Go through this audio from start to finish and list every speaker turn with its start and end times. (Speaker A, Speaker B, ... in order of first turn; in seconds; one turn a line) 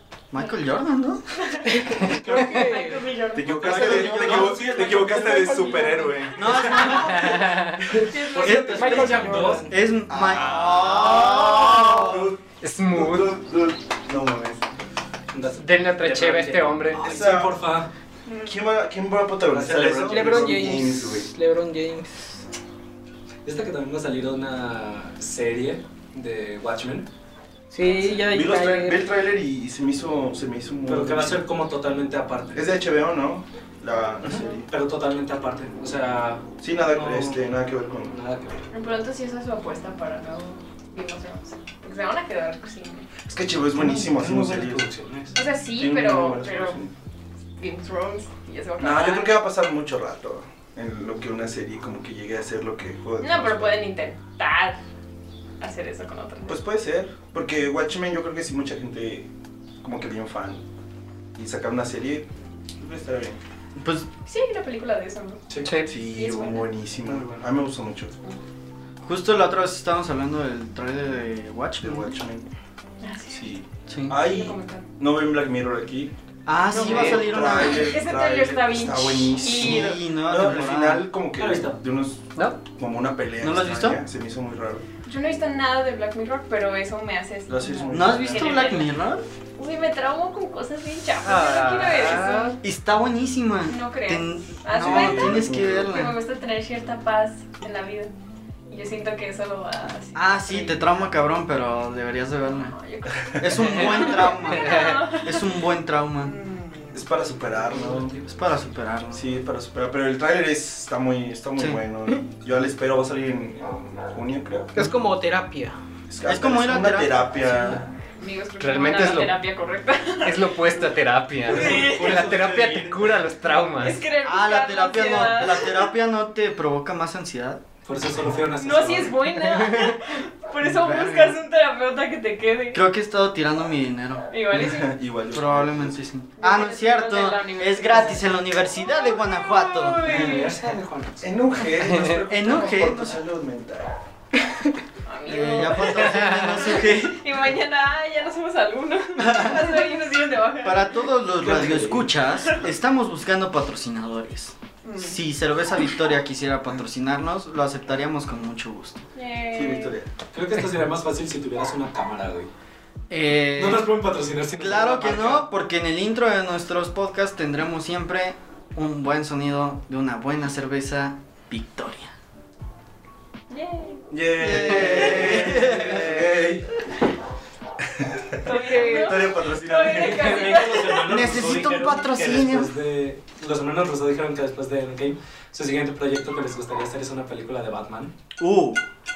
Speaker A: 0.3-1.2
Speaker B: 1.4-4.0
Speaker C: 1.6-3.1
Speaker D: 3.3-7.0
Speaker E: 3.5-5.5
Speaker A: 3.5-4.6
Speaker C: 3.8-6.2
Speaker A: 6.3-7.4
Speaker F: 7.0-7.8
Speaker B: 8.0-9.3
Speaker E: 8.1-9.7
Speaker A: 8.4-12.3
Speaker C: 8.5-9.8
Speaker D: 10.1-14.6
Speaker F: 12.6-13.4
Speaker E: 15.3-17.9
Speaker F: 15.6-17.1
Speaker D: 17.0-17.6
Speaker B: 18.3-18.6
Speaker D: 18.4-21.3
Speaker E: 19.5-20.8
Speaker C: 20.0-22.4
Speaker E: 23.4-27.1
Speaker C: 27.7-29.0
Speaker B: 27.8-28.4
Speaker D: 28.3-31.4
Speaker E: 30.9-32.7
Speaker D: 32.5-34.7
Speaker E: 34.2-37.4
Speaker D: 36.6-38.2
Speaker E: 38.1-38.6
Speaker B: 38.7-43.1
Speaker D: 43.3-44.9
Speaker E: 43.7-45.4
Speaker B: 45.3-46.8
Speaker D: 45.7-46.9
Speaker B: 47.6-49.4
Speaker D: 48.8-53.9
Speaker B: 53.2-54.8
Speaker B: 55.6-56.6
Speaker D: 56.5-59.3
Speaker D: 59.8-60.6
Speaker D: 61.3-63.4
Speaker A: 63.8-64.1
Speaker B: 64.3-65.4
Speaker E: 65.5-65.7
Speaker F: 65.6-65.9
Speaker D: 65.9-68.1
Speaker B: 66.0-66.7
Speaker A: 69.0-72.1
Speaker D: 71.8-72.5
Speaker B: 73.0-73.5
Speaker D: 73.3-76.1
Speaker A: 73.9-74.2
Speaker B: 74.2-74.9
Speaker A: 76.5-78.0
Speaker B: 76.7-80.0
Speaker D: 76.7-84.8
Speaker A: 79.5-81.1
Speaker E: 81.4-81.8
Speaker F: 82.3-82.6
Speaker A: 83.4-84.0
Speaker B: 85.0-88.9
Speaker D: 87.5-88.7
Speaker A: 87.9-89.2
Speaker B: 89.6-92.6
Speaker F: 91.2-92.6
Speaker A: 92.6-96.2
Speaker B: 93.7-98.1
Speaker D: 94.7-96.0
Speaker B: 98.7-100.9
Speaker A: 100.1-102.7
Speaker B: 102.4-105.6
Speaker A: 103.4-106.4
Speaker F: 103.7-104.1
Speaker B: 106.2-107.1
Speaker D: 106.9-108.2
Speaker E: 107.6-108.3
Speaker A: 108.2-109.2
Speaker D: 109.1-114.7
Speaker C: 114.7-115.8
Speaker D: 116.1-117.9
Speaker A: 116.2-117.8
Speaker B: 118.2-120.9
Speaker F: 118.6-119.4
Speaker F: 120.2-124.0
Speaker E: 121.5-123.0
Speaker B: 121.5-122.2
Speaker D: 122.2-122.6
Speaker B: 123.8-125.9
Speaker A: 124.2-127.6
Speaker E: 127.9-129.3
Speaker B: 128.6-132.8
Speaker A: 130.6-131.4
Speaker A: 132.7-134.3
Speaker B: 134.3-135.0
Speaker D: 134.5-136.1
Speaker A: 135.3-140.3
Speaker B: 136.4-140.6
Speaker E: 140.0-141.3
Speaker D: 141.2-144.0
Speaker F: 141.8-142.2
Speaker A: 142.2-143.2
Speaker B: 145.1-150.9
Speaker A: 145.3-147.2
Speaker A: 149.2-149.9
Speaker A: 150.6-159.0
Speaker E: 151.4-152.1
Speaker B: 154.8-155.2
Speaker B: 159.1-160.0
Speaker D: 159.5-160.1
Speaker E: 160.3-162.5
Speaker A: 163.1-163.9
Speaker E: 163.6-165.5
Speaker A: 164.6-172.1
Speaker B: 173.5-174.1
Speaker D: 174.1-176.7
Speaker A: 174.4-176.4
Speaker B: 174.7-175.3
Speaker D: 178.0-180.8
Speaker B: 178.4-181.3
Speaker C: 178.5-179.1
Speaker E: 179.8-188.1
Speaker A: 181.1-182.7
Speaker A: 188.4-188.8